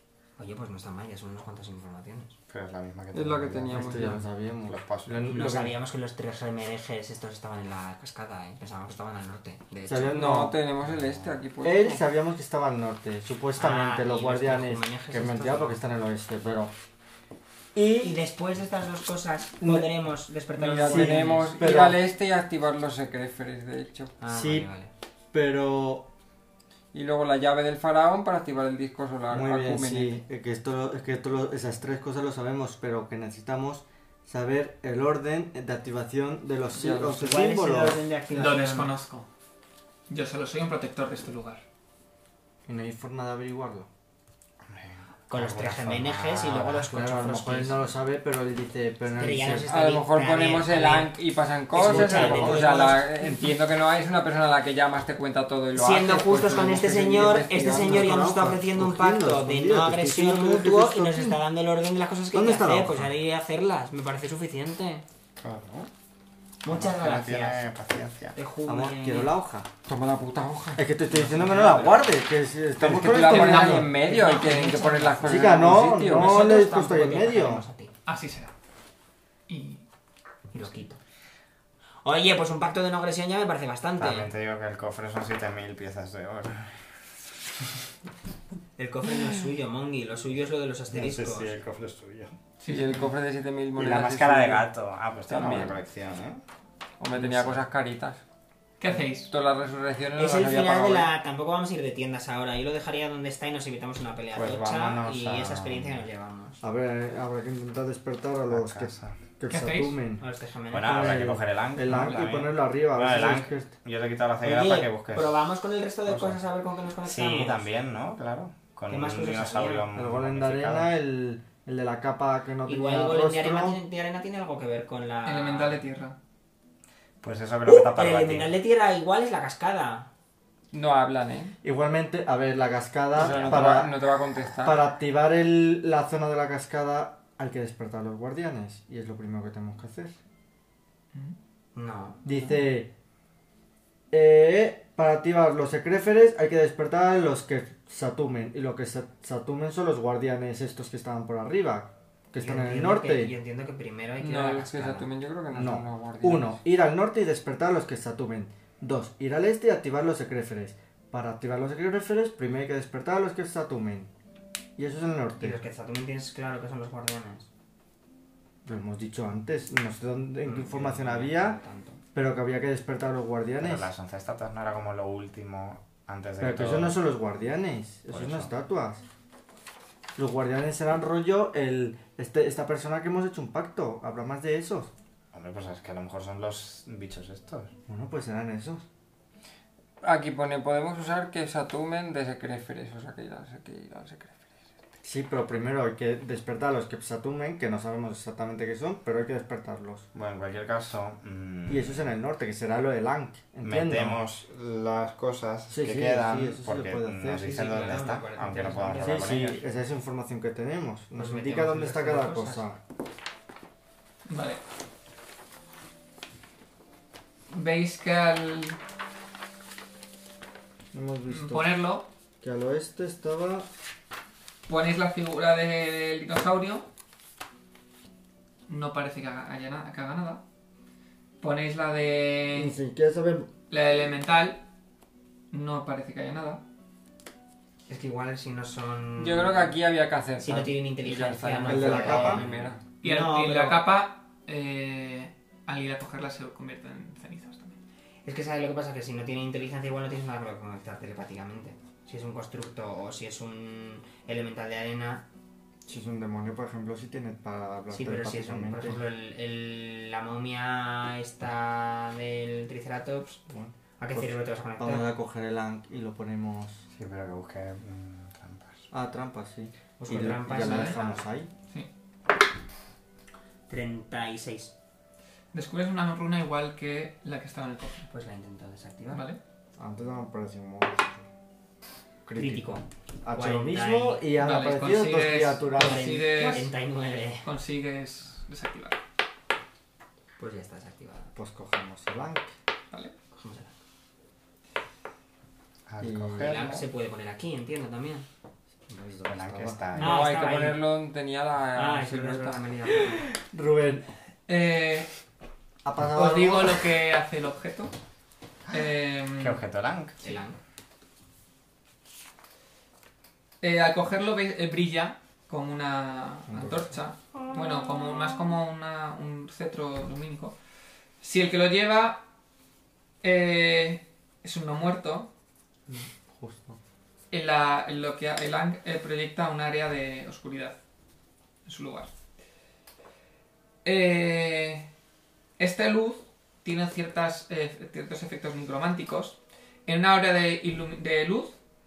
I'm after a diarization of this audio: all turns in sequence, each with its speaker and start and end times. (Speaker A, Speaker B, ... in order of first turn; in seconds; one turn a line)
Speaker A: 0.4-2.4
Speaker B: 2.5-4.0
Speaker C: 3.1-4.3
Speaker D: 3.7-5.8
Speaker B: 4.7-5.3
Speaker A: 5.3-10.3
Speaker D: 9.9-10.6
Speaker C: 10.1-12.0
Speaker D: 11.6-16.7
Speaker A: 13.6-15.8
Speaker D: 17.8-18.2
Speaker A: 18.0-21.6
Speaker D: 19.6-19.9
Speaker C: 20.6-24.2
Speaker D: 20.7-22.1
Speaker A: 24.2-24.9
Speaker D: 24.3-24.7
Speaker D: 25.3-26.1
Speaker C: 26.9-30.2
Speaker D: 29.3-38.1
Speaker C: 36.7-37.4
Speaker A: 37.2-39.0
Speaker E: 38.3-39.3
Speaker E: 40.1-41.6
Speaker D: 42.7-43.9
Speaker B: 44.6-46.9
Speaker A: 45.3-48.0
Speaker D: 46.9-49.7
Speaker A: 49.1-51.2
Speaker C: 49.7-58.2
Speaker A: 51.7-53.0
Speaker D: 51.8-53.5
Speaker A: 55.8-65.0
Speaker D: 57.7-61.4
Speaker D: 62.3-63.1
Speaker B: 65.4-65.9
Speaker A: 66.6-67.7
Speaker B: 66.7-68.4
Speaker A: 68.3-69.4
Speaker D: 68.7-69.7
Speaker C: 69.9-72.0
Speaker D: 70.8-73.9
Speaker C: 72.8-76.5
Speaker E: 73.2-73.9
Speaker A: 73.6-77.9
Speaker D: 75.2-77.7
Speaker E: 78.1-78.5
Speaker E: 79.5-79.8
Speaker A: 80.5-81.0
Speaker A: 82.0-84.3
Speaker B: 84.0-87.0
Speaker A: 88.8-91.6
Speaker B: 90.9-92.4
Speaker E: 92.6-93.0
Speaker C: 92.7-94.7
Speaker B: 93.8-96.4
Speaker C: 95.3-95.8
Speaker C: 97.0-98.2
Speaker A: 97.2-97.6
Speaker E: 98.8-99.3
Speaker C: 99.2-101.1
Speaker A: 100.2-106.6
Speaker B: 104.3-106.1
Speaker D: 106.6-110.2
Speaker B: 108.5-109.2
Speaker E: 109.5-110.0
Speaker A: 110.2-111.2
Speaker B: 110.7-115.4
Speaker D: 110.8-113.7
Speaker E: 111.8-112.5
Speaker A: 114.4-117.7
Speaker B: 116.1-116.4
Speaker B: 117.0-120.9
Speaker A: 118.9-119.9
Speaker D: 120.0-123.8
Speaker A: 122.7-125.8
Speaker E: 125.2-126.2
Speaker B: 127.2-128.5
Speaker A: 127.7-130.1
Speaker C: 130.7-131.5
Speaker D: 131.6-134.0
Speaker C: 133.2-134.8
Speaker D: 134.6-140.2
Speaker A: 141.8-142.2
Speaker D: 142.2-142.9
Speaker D: 144.1-153.3
Speaker A: 152.4-155.1
Speaker C: 154.2-156.6
Speaker D: 155.5-164.1
Speaker D: 164.8-165.6
Speaker A: 165.4-167.5
Speaker D: 168.7-171.6
Speaker A: 170.4-172.0
Speaker D: 172.1-173.9
Speaker B: 173.6-177.0
Speaker D: 176.4-179.1
Speaker B: 178.1-178.5
Speaker D: 180.2-184.9
Speaker B: 185.3-187.8
Speaker D: 187.9-188.8
Speaker C: 190.0-194.4
Speaker D: 195.0-200.1
Speaker B: 200.1-202.1
Speaker D: 201.7-204.2
Speaker B: 203.6-209.6
Speaker D: 205.7-207.6
Speaker A: 207.3-209.4
Speaker D: 209.0-212.8
Speaker A: 211.2-212.7
Speaker E: 214.3-214.6
Speaker E: 217.5-218.8
Speaker D: 220.9-221.7
Speaker E: 221.3-222.1
Speaker D: 222.4-223.7
Speaker E: 224.7-226.9
Speaker E: 228.7-230.4
Speaker E: 231.4-232.8
Speaker D: 232.5-233.5
Speaker E: 233.7-234.6
Speaker E: 235.5-236.6
Speaker A: 237.9-239.8
Speaker C: 239.2-242.8
Speaker A: 240.4-243.9
Speaker D: 241.7-242.5
Speaker E: 243.0-247.8
Speaker A: 248.2-255.3
Speaker D: 255.9-259.0
Speaker A: 257.9-263.4
Speaker D: 263.5-266.9
Speaker A: 264.0-265.1
Speaker B: 266.9-268.9
Speaker D: 268.9-271.5
Speaker A: 270.0-271.2
Speaker E: 270.5-271.0
Speaker A: 273.7-274.7
Speaker E: 275.5-278.1
Speaker A: 278.1-279.2
Speaker E: 279.1-279.4
Speaker D: 279.8-281.3
Speaker D: 282.2-286.2
Speaker A: 282.4-284.3
Speaker E: 284.4-286.7
Speaker A: 285.7-287.5
Speaker E: 287.4-289.0
Speaker A: 290.4-291.3
Speaker D: 291.4-292.6
Speaker A: 293.3-293.8
Speaker B: 295.9-296.9
Speaker D: 296.0-296.6
Speaker A: 296.4-298.3
Speaker D: 298.9-300.0
Speaker B: 299.3-300.2
Speaker C: 300.0-302.6
Speaker A: 300.0-300.8
Speaker A: 301.8-303.2
Speaker D: 303.0-304.1
Speaker E: 304.5-305.1
Speaker D: 305.8-306.8
Speaker E: 306.1-307.9
Speaker E: 308.7-309.6
Speaker B: 309.4-310.2
Speaker A: 310.2-310.6
Speaker E: 313.6-320.6
Speaker D: 316.5-316.9
Speaker E: 321.2-322.2
Speaker E: 323.2-325.3
Speaker D: 325.9-326.8
Speaker E: 327.3-330.8
Speaker E: 331.7-332.1
Speaker E: 333.9-334.9
Speaker E: 335.6-341.6